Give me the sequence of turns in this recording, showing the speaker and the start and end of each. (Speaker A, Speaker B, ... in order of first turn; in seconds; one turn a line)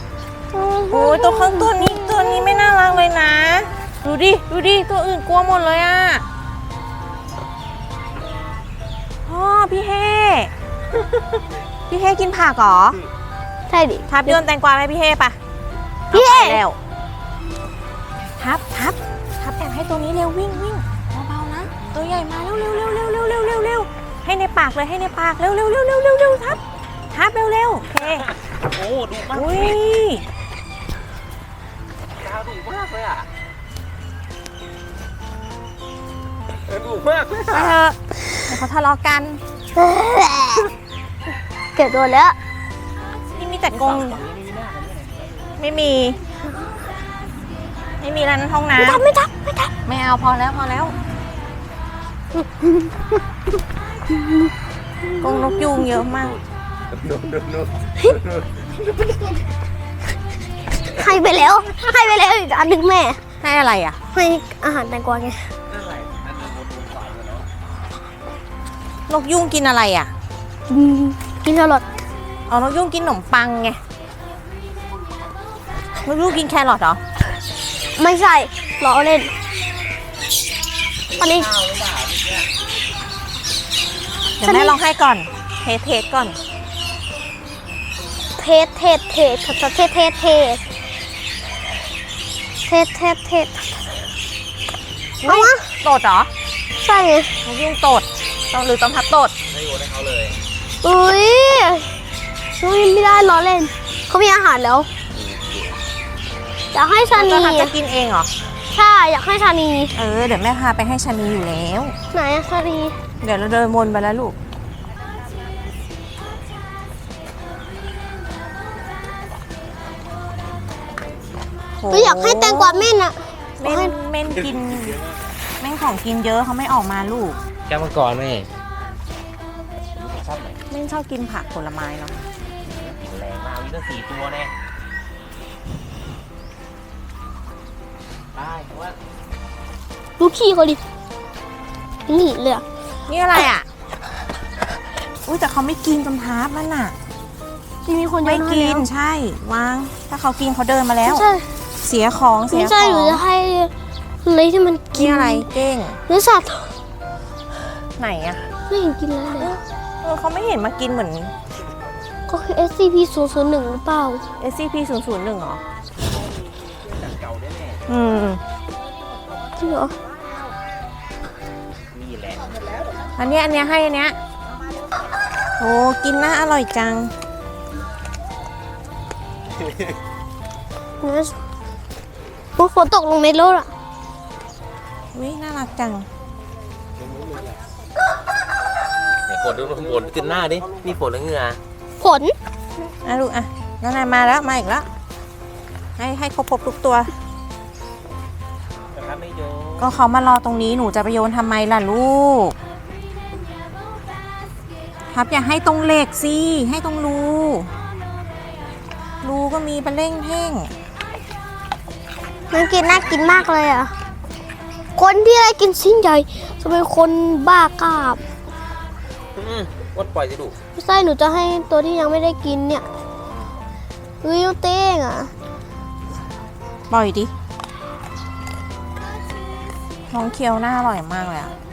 Speaker A: 0.5-2.8
Speaker B: 0.9-6.3
Speaker B: 9.3-10.5
Speaker B: 11.9-13.0
Speaker A: 13.7-14.4
Speaker B: 14.1-15.4
Speaker A: 16.1-16.6
Speaker B: 16.1-16.8
Speaker B: 18.4-26.6
Speaker B: 27.1-28.3
Speaker C: 28.0-29.8
Speaker B: 29.3-30.2
Speaker C: 32.2-33.3
Speaker C: 36.6-37.8
Speaker B: 37.5-39.4
Speaker A: 39.8-40.7
Speaker A: 41.8-42.4
Speaker B: 43.3-44.2
Speaker C: 43.7-45.5
Speaker B: 45.6-46.2
Speaker B: 48.0-49.0
Speaker A: 48.8-49.7
Speaker B: 49.9-51.0
Speaker A: 52.4-52.6
Speaker A: 55.1-56.0
Speaker B: 55.2-56.4
Speaker C: 56.2-58.6
Speaker A: 60.9-63.2
Speaker B: 63.4-64.0
Speaker A: 64.1-65.5
Speaker C: 65.7-67.5
Speaker B: 69.1-70.1
Speaker A: 70.7-71.8
Speaker B: 72.5-73.8
Speaker B: 76.0-77.0
Speaker A: 78.0-79.3
Speaker A: 81.1-81.5
Speaker C: 81.2-82.5
Speaker B: 84.4-86.4
Speaker A: 84.4-84.8
Speaker A: 88.4-90.6
Speaker A: 92.7-94.0
Speaker B: 95.2-96.3
Speaker A: 95.2-95.6
Speaker A: 96.8-97.4
Speaker B: 97.5-99.3
Speaker C: 99.5-100.4
Speaker A: 100.8-101.9
Speaker A: 102.6-104.9
Speaker C: 105.1-105.8
Speaker A: 106.7-107.8
Speaker B: 107.1-108.3
Speaker A: 108.7-109.9
Speaker B: 109.9-112.0
Speaker A: 112.1-113.0
Speaker B: 113.2-114.4
Speaker B: 121.8-122.9
Speaker A: 121.9-123.9
Speaker B: 123.6-125.0
Speaker B: 125.6-127.4
Speaker C: 127.7-128.5
Speaker C: 129.9-130.6
Speaker B: 130.7-132.2
Speaker C: 132.7-134.5
Speaker C: 138.3-139.0
Speaker A: 140.2-140.8
Speaker A: 142.1-142.7
Speaker B: 143.1-143.7
Speaker B: 145.2-147.0
Speaker A: 147.8-148.9
Speaker B: 148.2-151.2
Speaker A: 151.0-151.5
Speaker B: 151.8-153.2
Speaker A: 152.5-153.7
Speaker A: 154.2-155.5
Speaker B: 154.9-156.0
Speaker A: 156.1-156.8
Speaker B: 158.0-158.4
Speaker A: 158.7-159.6
Speaker B: 159.4-161.3
Speaker A: 162.3-164.2
Speaker B: 164.4-165.6
Speaker C: 166.8-167.8
Speaker B: 167.9-168.4
Speaker A: 169.6-169.9
Speaker C: 171.9-172.6
Speaker B: 173.2-174.2
Speaker B: 175.6-177.1
Speaker A: 181.0-181.4
Speaker A: 182.6-183.7
Speaker B: 185.1-186.1
Speaker C: 187.1-187.6
Speaker C: 189.3-191.6
Speaker A: 192.0-192.4
Speaker B: 193.0-194.9
Speaker B: 196.0-197.1
Speaker C: 198.9-199.9
Speaker B: 199.8-202.6
Speaker B: 205.1-207.7
Speaker B: 209.2-210.7
Speaker A: 212.5-213.9
Speaker A: 215.0-218.2
Speaker C: 219.4-220.6
Speaker A: 220.8-222.8
Speaker C: 223.1-223.4
Speaker A: 224.2-225.3
Speaker B: 226.9-227.3
Speaker B: 230.1-231.6